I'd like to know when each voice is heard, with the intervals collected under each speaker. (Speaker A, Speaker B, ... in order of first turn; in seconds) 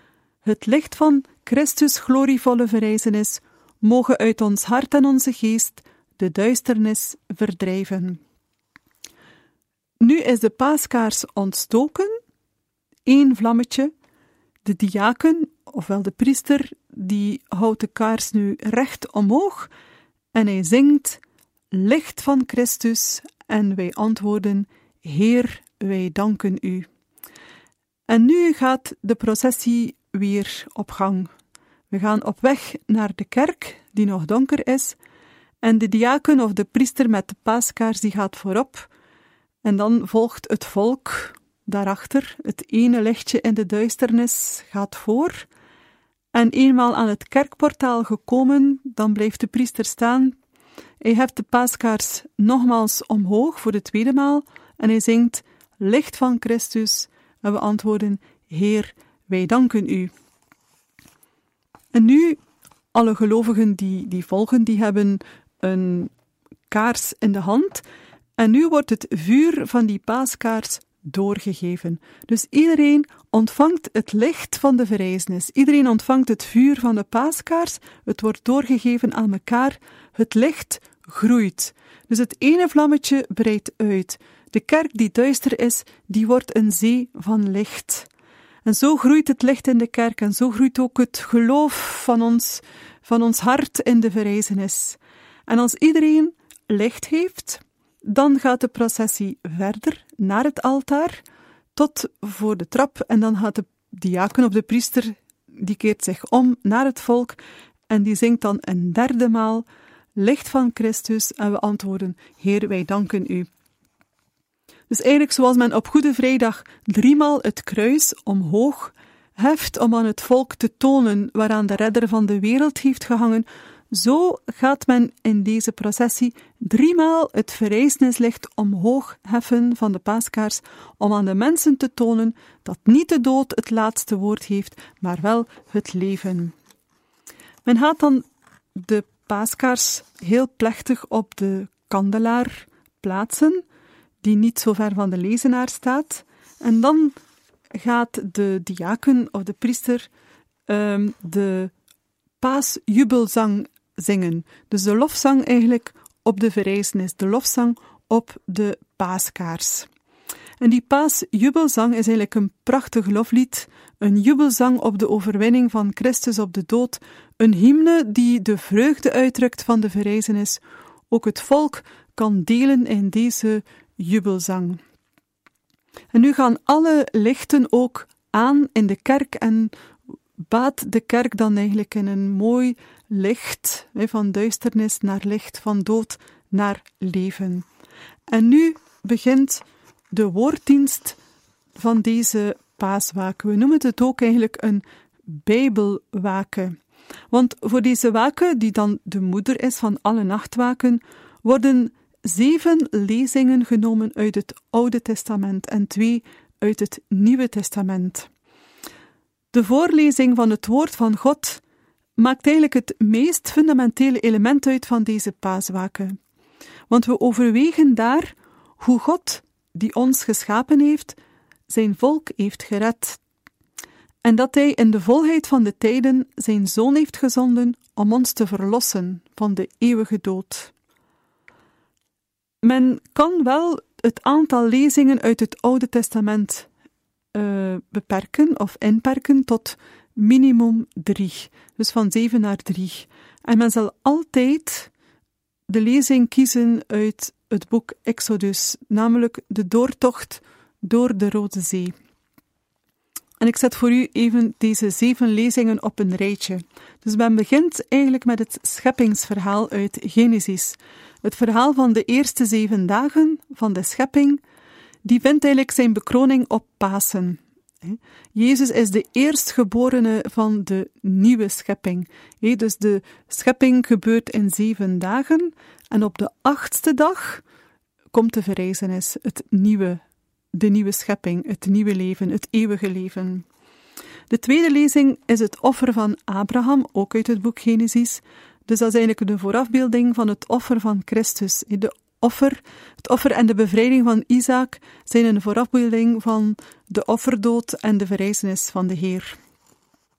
Speaker A: 0.4-8.2, 10.0-12.2, 13.1-13.9, 14.6-19.7, 20.3-21.2, 21.7-26.9, 28.1-31.3, 31.9-35.0, 35.6-38.9, 39.6-45.5, 46.3-50.4, 51.0-60.1, 61.9-62.4, 62.9-66.1, 66.7-67.8, 68.4-88.1, 88.6-101.2, 101.8-113.5, 114.9-136.5, 137.6-138.2, 138.8-143.6, 144.2-147.2, 147.7-150.1, 150.7-151.7, 152.4-159.9, 160.6-174.8, 176.1-179.7, 180.5-187.7, 188.3-191.2, 191.8-196.8, 197.3-208.3, 209.5-211.6, 212.2-216.2, 216.9-221.2, 221.7-223.2, 224.2-230.7, 232.6-236.7, 237.3-244.9, 245.7-251.9, 253.4-264.4, 265.0-277.4, 278.1-280.0, 280.5-283.4, 284.3-299.4